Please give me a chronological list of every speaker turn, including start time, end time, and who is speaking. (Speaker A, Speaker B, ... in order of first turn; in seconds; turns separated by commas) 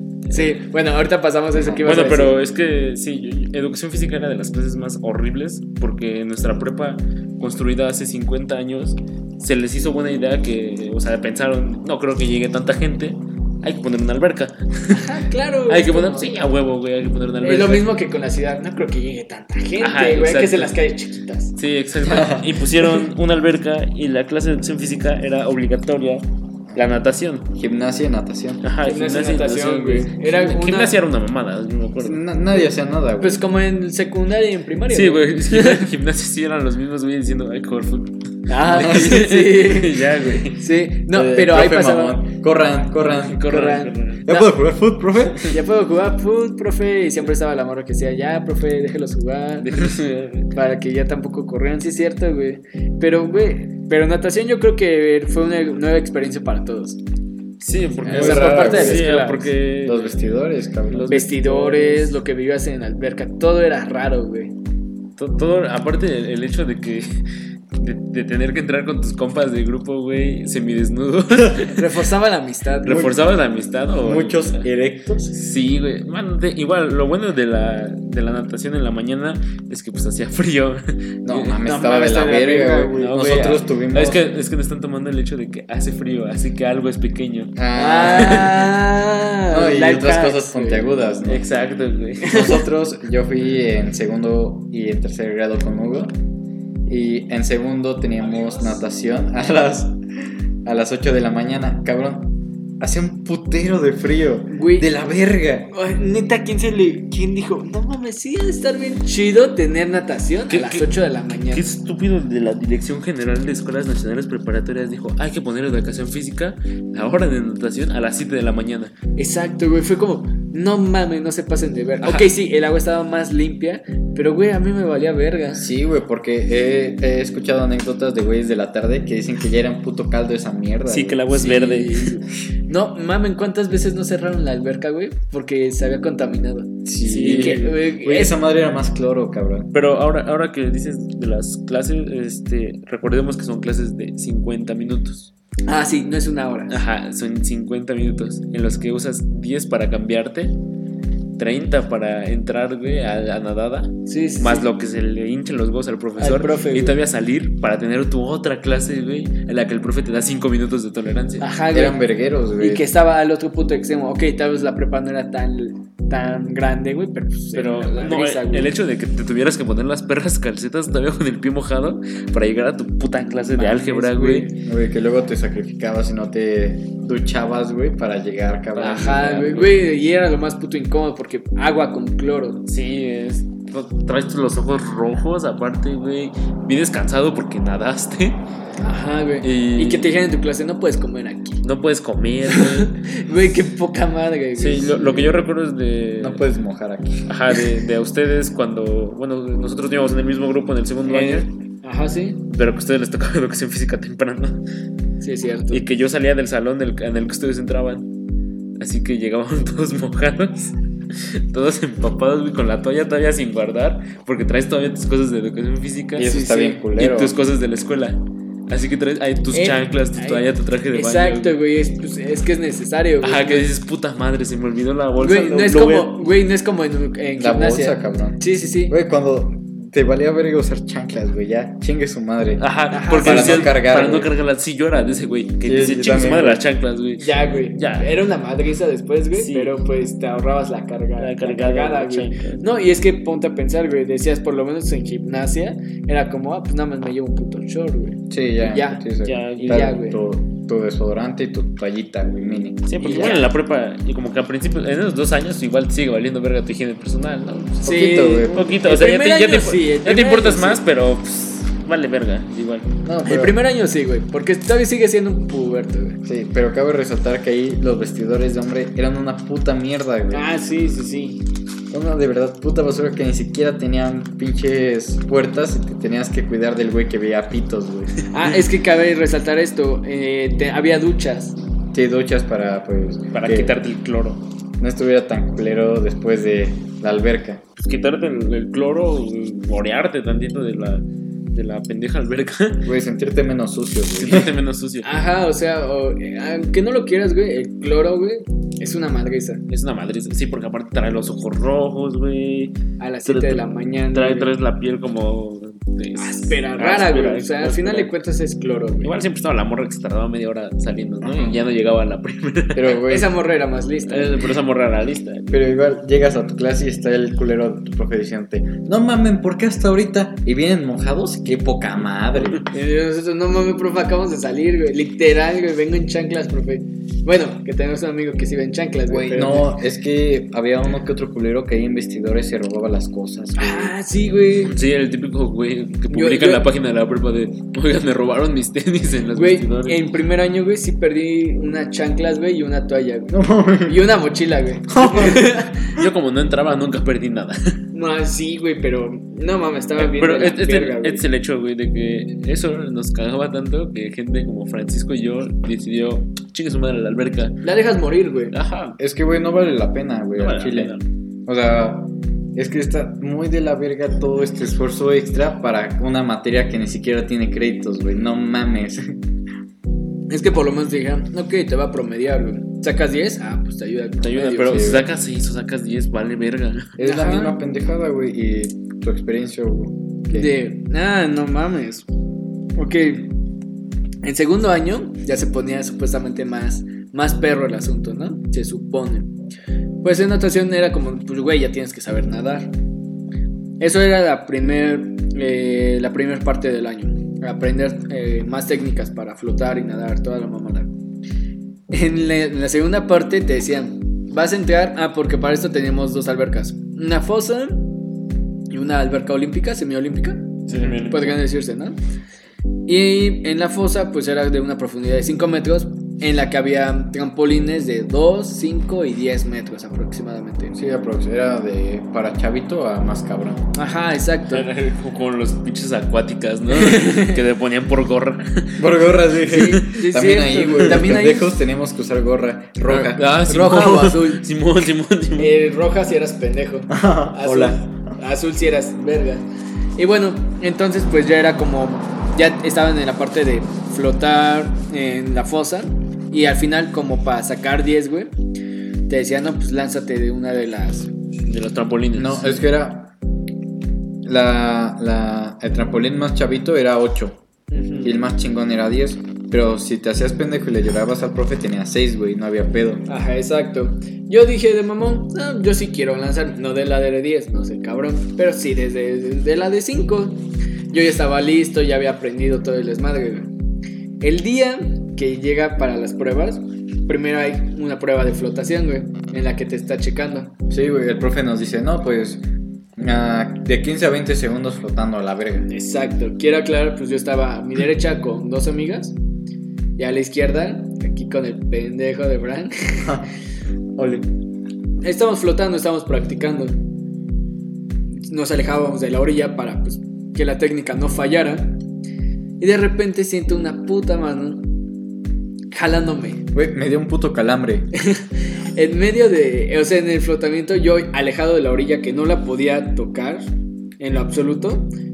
Speaker A: 0.3-2.4, Speaker B: 1.5-1.8, Speaker C: 1.8-15.0, Speaker A: 14.9-16.4, Speaker C: 15.7-17.9, Speaker A: 17.4-21.5, Speaker C: 19.8-20.7, Speaker C: 21.6-27.5, Speaker B: 22.1-22.5, Speaker B: 27.5-28.6, Speaker C: 28.6-32.2, Speaker A: 28.8-31.0, Speaker B: 32.0-33.4, Speaker A: 33.2-35.9, Speaker C: 34.9-40.6, Speaker A: 38.5-42.2, Speaker B: 38.7-39.2, Speaker B: 41.1-45.5, Speaker C: 43.2-44.2, Speaker A: 43.5-44.5, Speaker A: 45.4-50.0, Speaker C: 49.6-50.5, Speaker A: 50.5-57.0, Speaker C: 57.6-60.2, Speaker B: 58.0-61.2, Speaker A: 58.0-59.5, Speaker C: 60.9-62.1, Speaker A: 61.1-64.5, Speaker C: 65.2-67.2, Speaker C: 67.8-71.9, Speaker A: 71.7-73.1, Speaker C: 72.8-74.7, Speaker B: 72.9-73.1, Speaker B: 74.0-75.3, Speaker C: 75.3-81.6, Speaker B: 81.2-84.2, Speaker A: 81.6-83.1, Speaker C: 83.0-88.6, Speaker B: 87.5-88.7, Speaker A: 87.7-91.0, Speaker B: 89.5-91.5, Speaker C: 91.2-92.5, Speaker A: 92.2-92.6, Speaker B: 92.2-96.1, Speaker B: 96.8-100.0, Speaker A: 98.2-98.8, Speaker B: 100.6-105.7, Speaker A: 104.5-104.9, Speaker A: 105.7-111.6, Speaker C: 110.5-110.9, Speaker C: 111.5-118.9, Speaker A: 119.2-125.7, Speaker B: 125.5-131.3, Speaker C: 130.9-132.2, Speaker A: 131.3-138.4, Speaker B: 136.8-139.7, Speaker C: 137.0-137.7, Speaker C: 139.7-145.3, Speaker A: 145.7-146.8, Speaker C: 146.7-150.5, Speaker C: 151.4-161.5, Speaker A: 154.1-154.6, Speaker A: 156.2-157.0, Speaker A: 161.4-162.0, Speaker B: 161.7-162.8, Speaker A: 162.6-168.7, Speaker C: 167.5-174.5, Speaker A: 173.2-174.6, Speaker B: 174.6-179.5, Speaker C: 178.8-179.8, Speaker A: 178.8-182.6, Speaker C: 182.7-188.4, Speaker A: 188.8-191.6, Speaker C: 189.4-190.1, Speaker C: 191.6-192.9, Speaker A: 192.5-195.4, Speaker C: 194.6-196.4, Speaker B: 196.2-197.3, Speaker C: 197.3-201.5, Speaker A: 201.1-202.4, Speaker C: 202.5-204.6, Speaker A: 205.2-205.8, Speaker C: 205.7-208.1, Speaker C: 208.8-216.4, Speaker B: 216.2-217.3, Speaker A: 216.2-216.8, Speaker C: 216.9-221.6, Speaker A: 219.5-223.7, Speaker C: 223.2-226.2, Speaker A: 225.2-228.9, Speaker B: 227.4-234.3, Speaker C: 232.6-238.1, Speaker A: 232.9-233.8, Speaker B: 235.6-236.6, Speaker A: 237.2-250.2, Speaker C: 239.3-239.7, Speaker C: 241.2-242.6, Speaker B: 248.3-253.3, Speaker C: 249.2-249.9, Speaker C: 252.9-257.8, Speaker A: 253.0-253.5, Speaker B: 257.8-258.8, Speaker A: 257.8-260.8, Speaker C: 258.4-262.9, Speaker B: 263.0-263.6, Speaker A: 263.2-266.2, Speaker B: 266.2-270.4, Speaker A: 270.3-271.4, Speaker B: 271.9-278.1, Speaker A: 278.3-281.6, Speaker B: 281.9-283.8, Speaker C: 283.3-284.4, Speaker B: 284.8-287.6, Speaker C: 287.8-292.9, Speaker B: 292.9-294.5, Speaker C: 294.1-295.2, Speaker A: 295.0-299.6, Speaker C: 299.7-308.1, Speaker A: 303.0-304.5, Speaker A: 306.2-309.1, Speaker C: 309.0-313.0, Speaker B: 311.2-311.6, Speaker B: 312.7-313.3, Speaker A: 313.1-314.4, Speaker C: 314.1-315.6, Speaker B: 315.5-322.6, Speaker A: 322.7-329.7, Speaker B: 329.1-333.9, Speaker A: 333.6-334.7, Speaker C: 334.6-340.0, Speaker A: 336.1-336.6, Speaker A: 339.3-345.9, Speaker B: 343.3-344.0, Speaker B: 344.9-345.5, Speaker C: 345.3-347.8, Speaker A: 347.9-351.2, Speaker C: 349.9-357.6, Speaker A: 357.6-358.5, Speaker C: 358.5-359.0, Speaker B: 359.0-369.2, Speaker C: 360.4-361.0, Speaker A: 370.3-374.9, Speaker C: 374.2-376.9, Speaker B: 374.7-375.1, Speaker B: 377.0-380.5, Speaker A: 377.0-377.6, Speaker A: 380.3-382.1, Speaker A: 382.8-383.3, Speaker A: 384.2-389.3, Speaker A: 390.0-392.7, Speaker A: 393.8-400.9, Speaker A: 401.9-407.9, Speaker A: 408.7-412.0, Speaker C: 410.7-411.4, Speaker A: 412.9-420.8, Speaker B: 420.7-423.7, Speaker A: 423.7-424.7, Speaker C: 424.5-428.9, Speaker A: 426.7-427.4, Speaker B: 428.8-433.4, Speaker A: 429.4-431.5, Speaker C: 432.9-435.5, Speaker A: 433.4-434.4, Speaker A: 435.4-439.4, Speaker B: 436.9-437.9, Speaker A: 440.0-448.3, Speaker A: 449.1-451.1, Speaker C: 451.5-452.6, Speaker B: 452.1-453.1, Speaker B: 454.2-457.4, Speaker A: 457.7-458.2, Speaker B: 458.0-463.0, Speaker A: 463.1-473.5, Speaker A: 474.2-480.5, Speaker B: 480.7-482.4, Speaker B: 483.0-485.7, Speaker A: 485.7-489.1, Speaker A: 490.0-493.1, Speaker B: 493.9-494.3, Speaker A: 495.0-496.8, Speaker A: 498.3-501.8, Speaker A: 502.6-504.7, Speaker A: 505.7-506.4, Speaker B: 506.5-507.9, Speaker A: 508.0-514.9